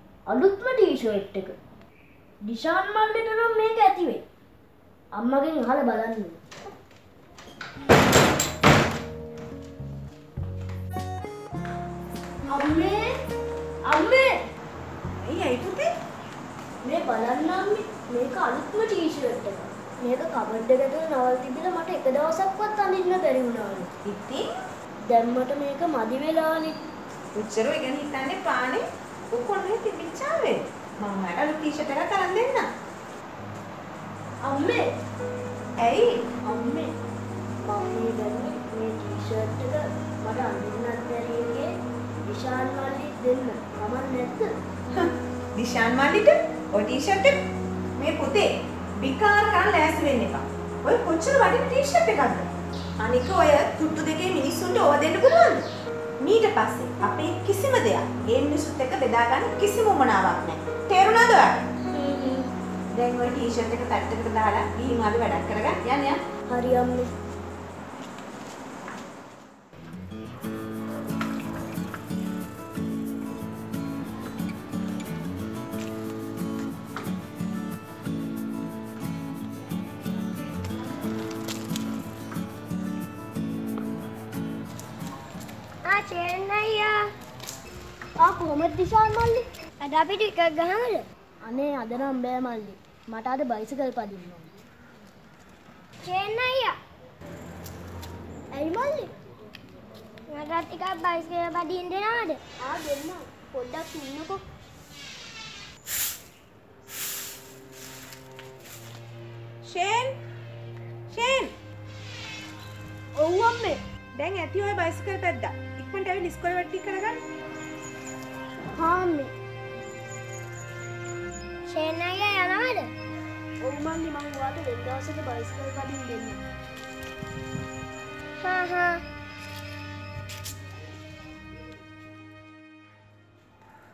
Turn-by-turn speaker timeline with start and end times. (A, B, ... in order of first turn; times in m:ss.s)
0:00.3-0:01.5 A
0:02.4-0:04.2 A
0:05.2-0:06.4 A
0:12.5-0:13.1 A
0:13.9-0:14.4 A
0:15.2-0:15.9 B
0:16.8-0:23.9 A
0:24.0-0:24.4 B
0:25.1-0:26.8 A
0:27.3-0:32.6 B
0:34.4-0:34.8 A
0:35.8-0:36.3 B
0:36.4-0:36.9 A
0:37.6-0:41.7 A
0:42.2-0:44.5 A
0:44.9-0:47.4 B
0:48.0-0:48.5 B
0:49.0-0:52.5 B
0:53.0-0:55.6 B
0:56.2-1:01.6 B
1:02.0-1:02.3 A
1:02.1-1:02.3 C
1:02.9-1:06.2 B
1:06.5-1:07.1 A
1:25.8-1:27.1 C
1:28.2-1:29.4 A
1:29.8-1:31.0 C
1:31.4-1:34.5 A
1:36.0-1:36.8 C
1:38.5-1:39.1 A
1:40.3-1:42.4 C
1:42.6-1:44.4 A
1:49.6-1:50.1 B
1:51.1-1:51.5 B
1:53.2-1:53.8 A
1:54.2-1:57.2 B
1:58.8-1:59.3 A
2:01.6-2:02.9 C
2:03.6-2:06.4 A
2:08.4-2:09.0 C